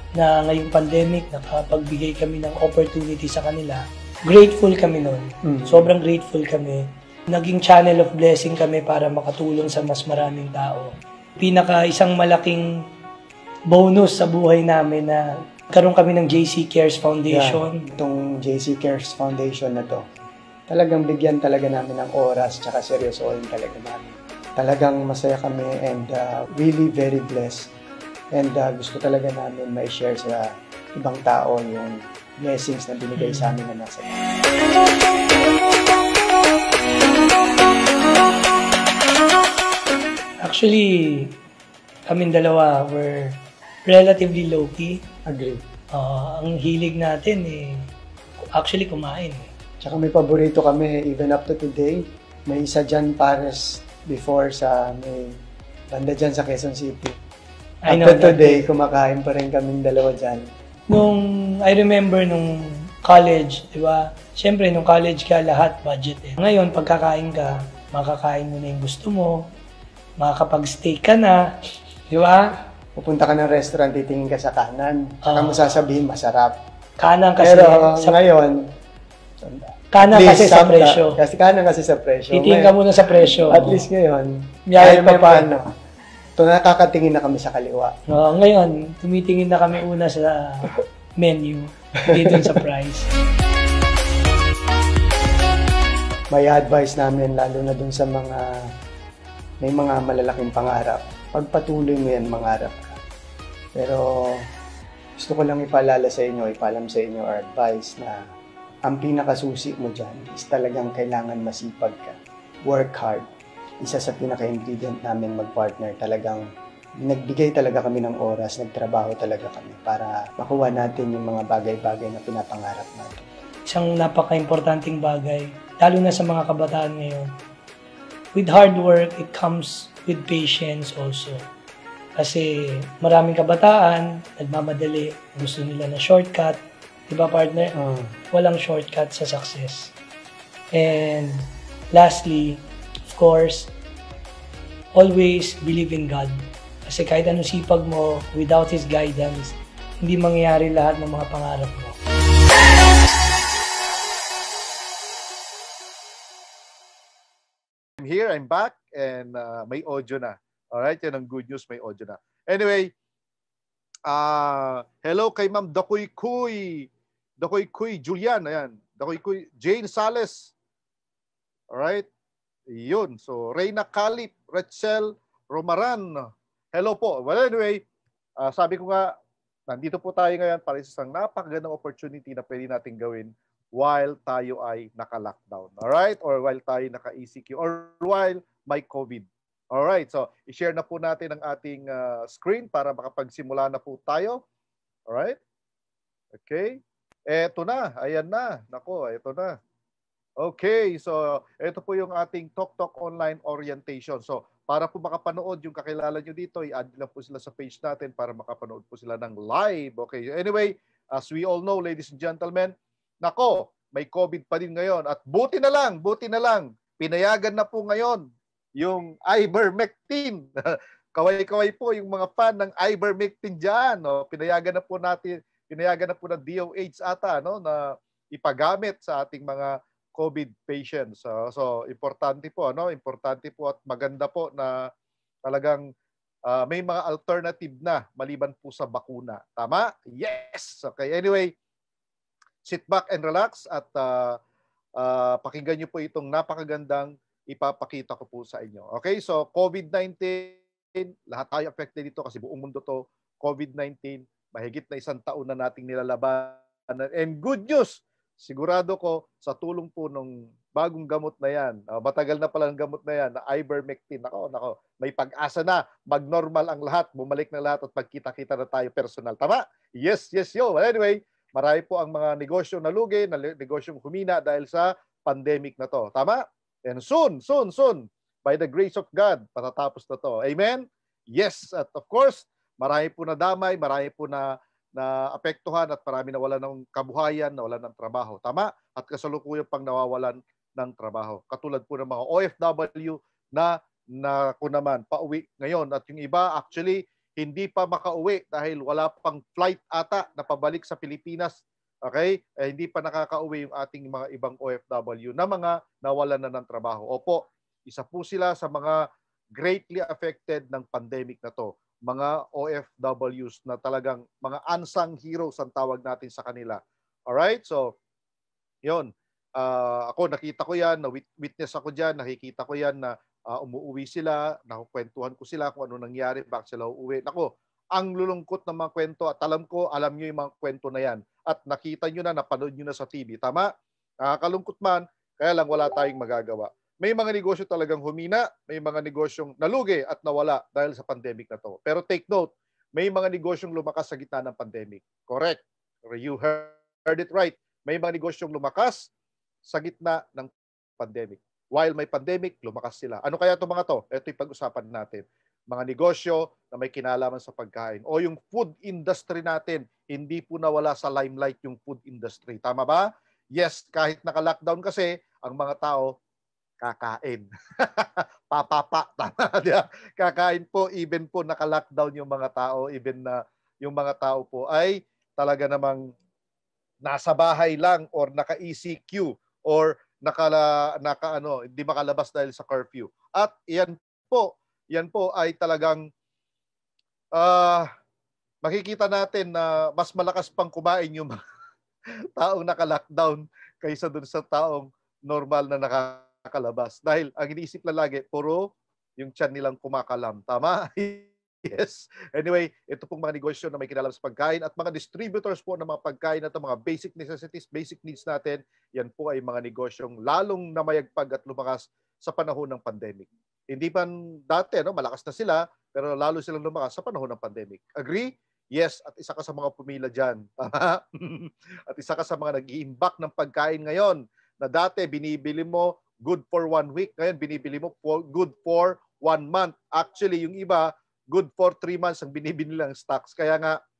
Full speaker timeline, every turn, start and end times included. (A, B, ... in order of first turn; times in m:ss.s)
0:00.1-0:12.7 A
0:05.4-0:05.9 B
0:13.7-0:17.8 A
0:17.3-0:20.0 B
0:20.7-0:27.7 B
0:28.3-0:34.1 B
0:33.2-0:33.5 A
0:40.4-0:41.3 A
0:42.1-0:45.0 A
0:45.3-0:45.6 B
0:45.9-0:47.8 A
0:48.5-0:49.5 A
0:49.8-0:55.4 B
0:55.9-0:57.2 B
0:57.8-0:58.6 A
0:57.9-1:00.5 B
1:00.9-1:09.5 A
1:10.2-1:11.4 A
1:12.1-1:12.6 A
1:13.0-1:16.6 B
1:15.2-1:15.6 A
1:17.0-1:18.2 A
1:17.4-1:18.6 B
1:19.4-1:25.7 B
1:19.9-1:21.2 A
1:22.3-1:23.9 A
1:24.7-1:25.5 A
1:26.4-1:27.9 B
1:28.1-1:33.1 A
1:32.1-1:32.5 B
1:36.3-1:38.5 B
1:39.6-1:43.0 B
1:43.7-1:44.4 B
1:45.2-1:48.2 B
1:48.9-1:53.3 B
1:53.8-1:56.5 B
1:57.0-2:03.3 B
2:03.7-2:07.3 A
2:08.3-2:11.4 A
2:12.2-2:17.7 A
2:17.7-2:18.1 B
2:18.3-2:19.9 A
2:20.7-2:23.7 A
2:24.9-2:31.9 A
2:38.0-2:42.9 C
2:44.1-2:46.9 C
2:47.4-2:50.5 C
2:51.7-2:52.0 C
2:52.7-2:56.1 C
2:56.7-2:57.8 C
2:58.4-2:59.1 C
2:59.7-3:14.4 C
3:15.1-3:15.4 C
3:16.4-3:19.6 C
3:20.4-3:38.2 C
3:38.8-3:54.9 C
3:55.4-3:55.8 C
3:56.5-4:01.5 C
4:02.6-4:04.4 C
4:05.0-5:09.0 C
5:09.6-5:17.9 C
5:18.8-5:33.7 C
5:34.2-5:49.1 C
5:49.6-6:06.1 C
6:06.8-6:16.1 C
6:17.0-6:26.0 C
6:27.3-6:27.9 C
6:28.6-6:31.4 C
6:32.4-7:13.8 C